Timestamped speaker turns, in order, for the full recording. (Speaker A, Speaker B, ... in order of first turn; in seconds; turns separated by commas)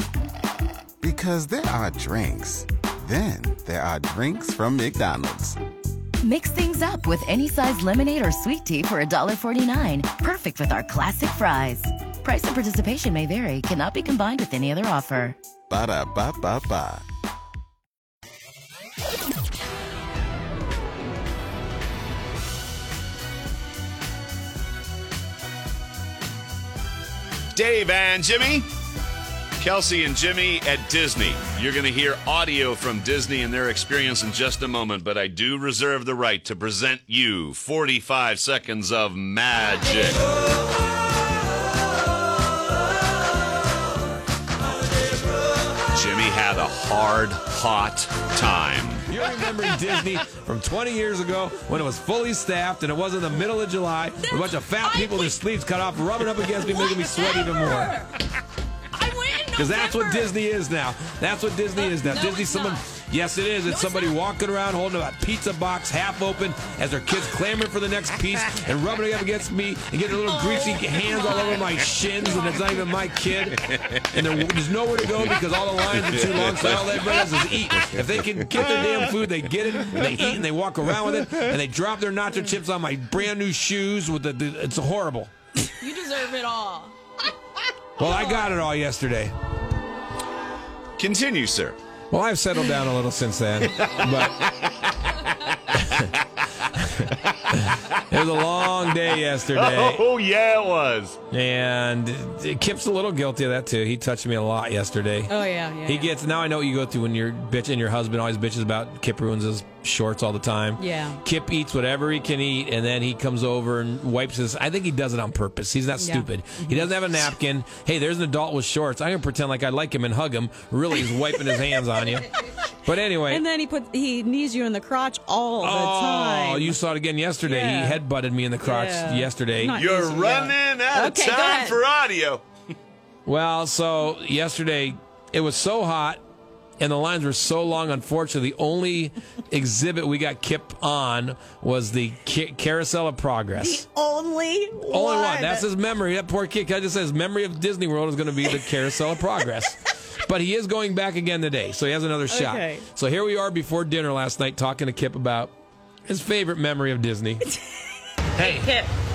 Speaker A: 1.0-5.5, Speaker B: 6.2-15.3, Speaker A: 15.7-17.0, Speaker C: 27.5-28.7, Speaker C: 29.6-40.2, Speaker C: 45.9-49.0, Speaker D: 49.1-57.9, Speaker E: 54.8-55.3, Speaker E: 56.9-58.1, Speaker E: 58.9-60.3, Speaker D: 59.5-85.3, Speaker E: 61.9-62.8, Speaker E: 71.2-71.5, Speaker C: 73.6-74.0, Speaker C: 75.9-78.8, Speaker E: 85.8-86.9, Speaker D: 88.0-89.3, Speaker C: 91.0-91.8, Speaker D: 92.1-94.4, Speaker C: 93.8-96.2, Speaker D: 96.8-100.0, Speaker C: 99.5-101.2, Speaker D: 101.3-122.3, Speaker E: 105.3-106.1, Speaker E: 110.8-111.2, Speaker E: 116.0-116.9, Speaker D: 122.8-123.4, Speaker E: 123.3-126.8, Speaker D: 125.6-129.8, Speaker E: 127.4-128.0, Speaker E: 128.6-131.8, Speaker C: 129.8-132.4, Speaker D: 133.2-136.2, Speaker D: 136.8-143.8, Speaker E: 143.6-145.6, Speaker D: 144.9-155.5, Speaker E: 152.3-152.8, Speaker D: 156.1-157.5, Speaker E: 158.4-158.9